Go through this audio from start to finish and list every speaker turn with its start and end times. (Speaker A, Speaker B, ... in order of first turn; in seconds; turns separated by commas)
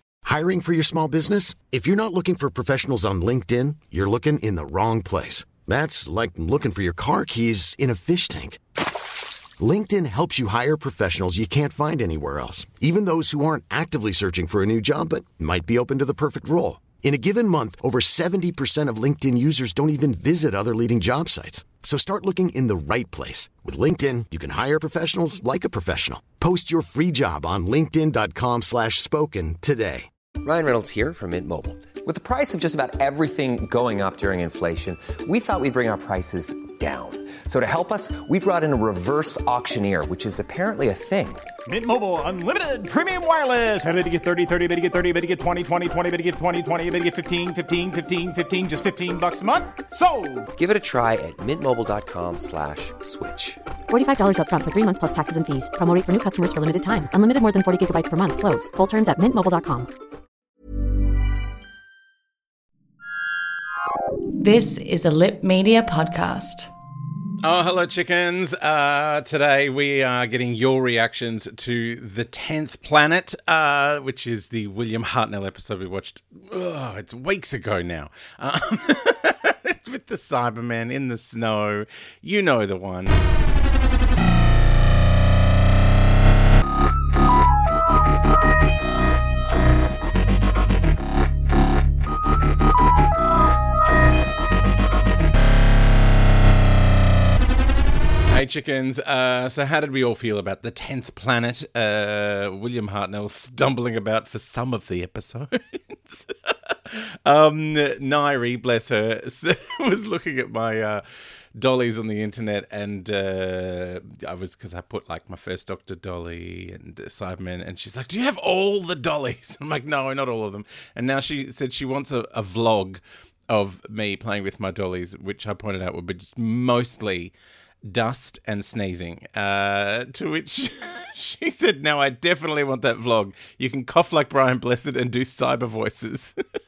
Speaker A: 0.2-8.6, Speaker A: 9.6-30.1, Speaker B: 30.4-41.5, Speaker C: 41.7-50.5, Speaker B: 50.5-53.6, Speaker D: 53.9-59.9, Speaker E: 64.4-66.7, Speaker F: 67.4-83.2, Speaker F: 98.3-111.0, Speaker F: 111.5-127.3, Speaker F: 127.9-136.3